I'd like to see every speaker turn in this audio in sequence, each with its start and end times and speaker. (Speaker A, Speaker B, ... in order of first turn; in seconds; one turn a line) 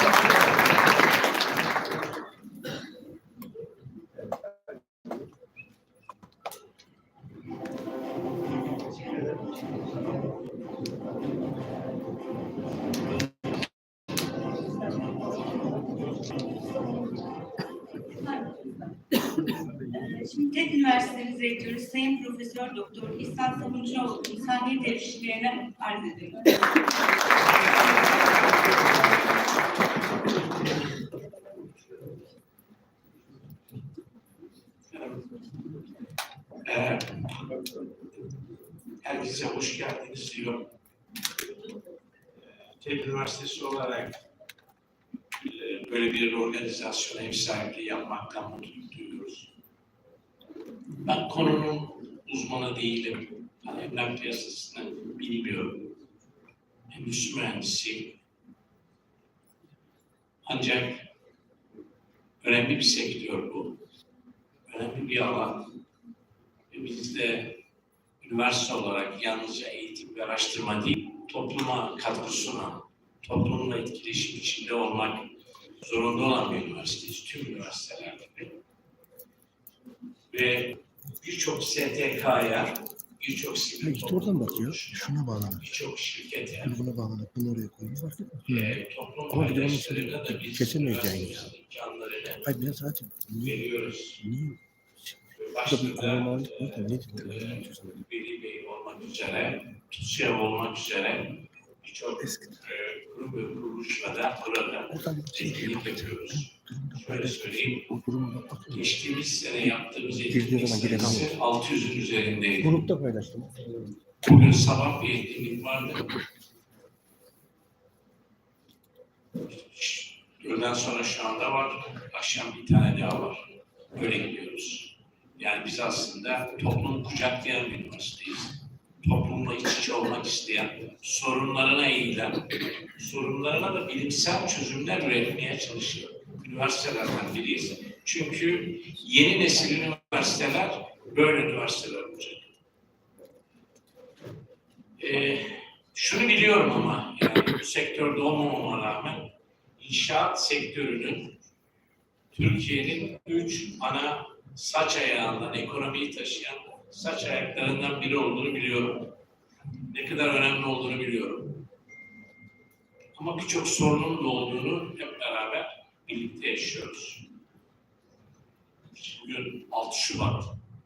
Speaker A: 18.0-18.7
Speaker A: 19.9-26.6
Speaker B: 34.9-35.3
Speaker B: 36.6-37.4
Speaker B: 39.0-40.7
Speaker B: 42.8-44.2
Speaker B: 45.5-49.5
Speaker B: 51.0-55.9
Speaker B: 56.9-58.1
Speaker B: 60.5-61.0
Speaker B: 62.4-63.8
Speaker B: 64.7-65.7
Speaker B: 66.7-67.6
Speaker B: 68.2-75.3
Speaker B: 75.8-78.6
Speaker B: 80.3-86.8
Speaker C: 83.8-85.7
Speaker C: 86.6-91.5
Speaker B: 88.4-92.5
Speaker C: 92.4-93.6
Speaker B: 93.4-94.2
Speaker C: 94.2-94.6
Speaker B: 95.3-107.9
Speaker C: 95.7-98.0
Speaker C: 102.2-102.5
Speaker C: 104.9-108.8
Speaker B: 108.7-112.8
Speaker C: 110.3-111.3
Speaker C: 112.6-113.8
Speaker B: 114.2-116.1
Speaker B: 119.5-142.5
Speaker B: 145.0-151.3
Speaker B: 152.3-159.1
Speaker B: 159.9-161.7
Speaker B: 163.2-167.3
Speaker B: 168.9-170.5